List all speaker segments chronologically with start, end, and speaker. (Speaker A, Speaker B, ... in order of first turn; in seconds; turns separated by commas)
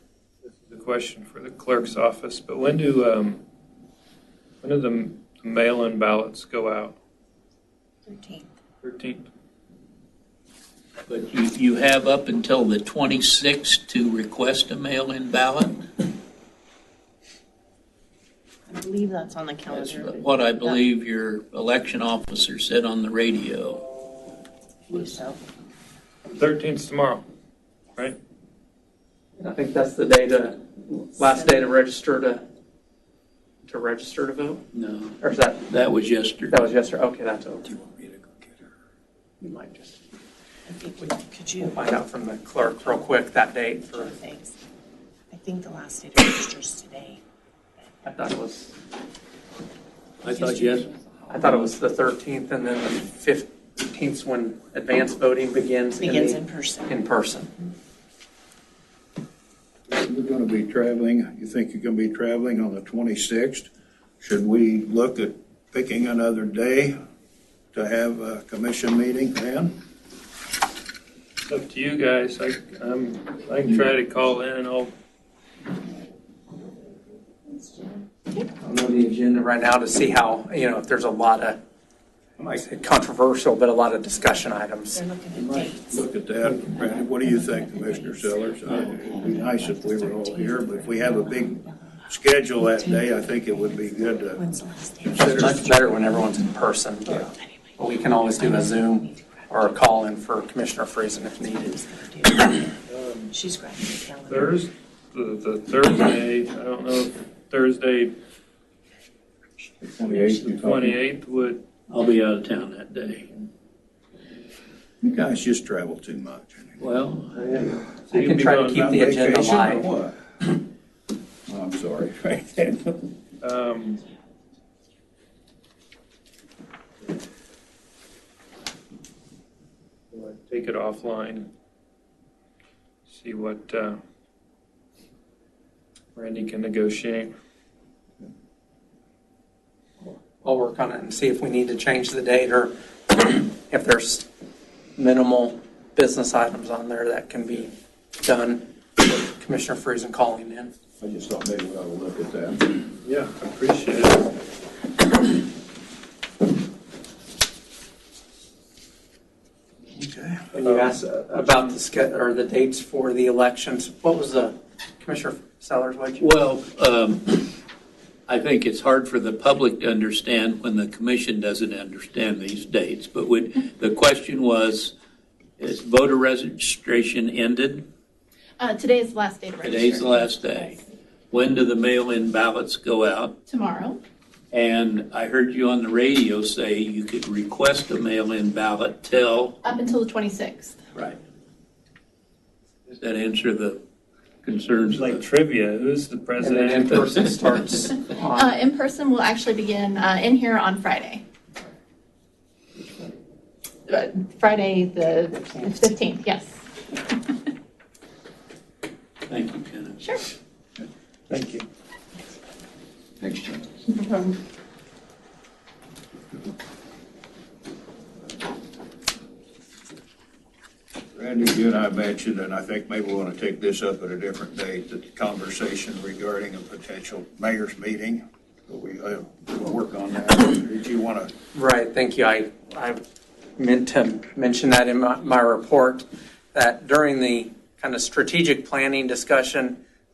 Speaker A: 0.5-3.4, Speaker A: 4.6-7.0, Speaker B: 8.1-8.5, Speaker A: 8.8-9.3, Speaker C: 11.1-15.9, Speaker B: 18.7-20.8, Speaker C: 19.7-23.9, Speaker B: 24.9-25.4, Speaker A: 26.3-27.2, Speaker D: 29.4-32.4, Speaker D: 33.6-34.6, Speaker C: 34.7-36.5, Speaker D: 35.2-35.7, Speaker D: 36.5-37.7, Speaker D: 39.4-40.0, Speaker B: 40.6-41.9, Speaker D: 41.6-44.1, Speaker B: 42.6-43.2, Speaker B: 43.8-44.5, Speaker B: 45.3-47.2, Speaker B: 47.8-48.0, Speaker D: 48.0-48.7, Speaker C: 50.2-51.7, Speaker B: 50.3-51.3, Speaker D: 51.3-57.5, Speaker B: 56.0-56.9, Speaker E: 59.9-67.0, Speaker E: 67.7-69.8, Speaker A: 71.4-74.9, Speaker B: 77.5-78.0, Speaker D: 78.6-81.6, Speaker D: 82.5-85.0, Speaker B: 84.9-86.1, Speaker E: 85.3-94.4, Speaker B: 86.7-96.4, Speaker E: 95.1-95.6, Speaker D: 95.2-97.2, Speaker B: 97.0-100.2, Speaker D: 97.8-101.8, Speaker B: 101.2-104.7, Speaker A: 102.9-103.3, Speaker A: 104.3-108.1, Speaker E: 109.8-111.0, Speaker B: 109.9-110.9, Speaker A: 110.5-111.6, Speaker C: 111.9-113.3, Speaker E: 115.0-116.8, Speaker C: 116.8-117.7, Speaker A: 117.6-118.8, Speaker D: 118.1-119.9, Speaker E: 118.6-120.2, Speaker E: 121.5-123.0, Speaker A: 123.4-124.0, Speaker A: 130.1-131.5, Speaker A: 133.1-134.0, Speaker A: 136.1-137.3, Speaker D: 140.0-144.3, Speaker D: 144.9-150.7, Speaker E: 151.0-152.8, Speaker A: 153.0-154.3, Speaker E: 159.9-160.4, Speaker D: 160.5-166.3, Speaker A: 160.6-161.0, Speaker C: 166.2-167.6, Speaker C: 168.3-174.9, Speaker C: 175.6-177.8, Speaker F: 178.6-180.7, Speaker C: 179.6-183.4, Speaker F: 183.5-184.0, Speaker C: 184.5-189.6, Speaker F: 189.6-190.8, Speaker C: 190.9-191.2, Speaker C: 193.0-193.8, Speaker C: 194.4-195.3, Speaker A: 194.9-197.3, Speaker D: 196.4-198.6, Speaker F: 198.3-201.2, Speaker D: 202.8-203.1, Speaker F: 203.9-207.0, Speaker C: 209.3-210.0, Speaker A: 211.3-211.7, Speaker E: 213.2-213.5, Speaker F: 214.0-214.3, Speaker E: 221.1-231.3, Speaker D: 231.5-233.0, Speaker D: 233.6-239.8